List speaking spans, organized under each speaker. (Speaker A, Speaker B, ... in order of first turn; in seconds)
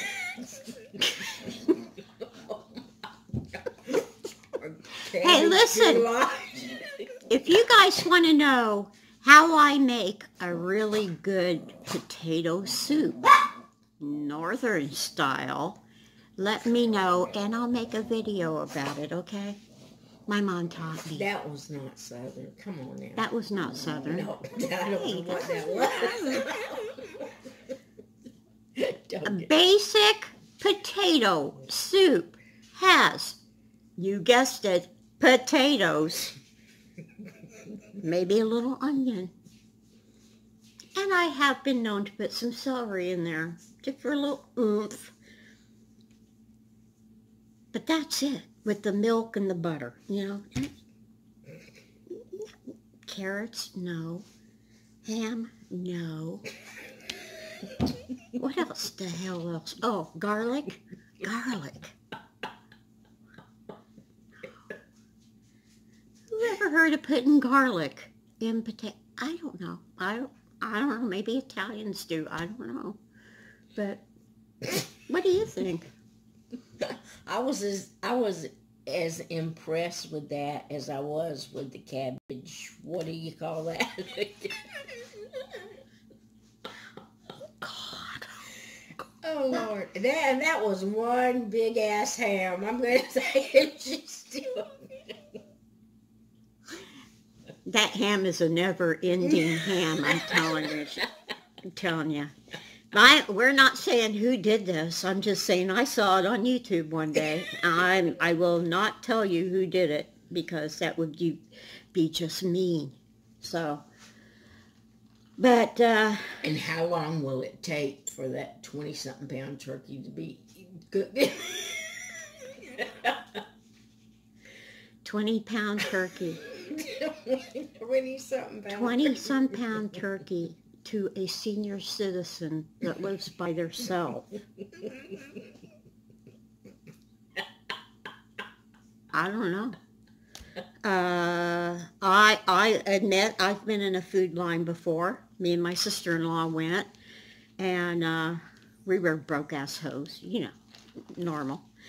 Speaker A: 0.3-1.3, 2.3-2.6, 3.7-4.0, 4.6-7.0, 21.1-23.2, 24.1-27.2, 28.8-29.5, 76.8-84.9, 89.2-95.2, 99.9-100.2, 116.4-123.4, 126.4-129.5
Speaker B: 5.2-6.1, 7.3-13.2, 14.0-15.8, 16.4-19.6, 20.3-21.3, 23.1-24.3, 25.0-26.6, 29.2-33.4, 34.0-36.3, 38.0-39.3, 40.9-45.1, 47.7-50.7, 52.1-52.5, 53.0-54.2, 55.0-56.5, 58.2-62.0, 66.3-73.0, 73.8-74.0, 74.7-75.9, 87.6-88.4, 97.7-101.1, 101.6-102.3, 102.9-111.4, 111.9-113.8, 115.4-116.4, 125.0-126.4, 128.7-134.3, 139.1-139.8, 140.8-146.9, 147.6-150.5, 151.1-151.7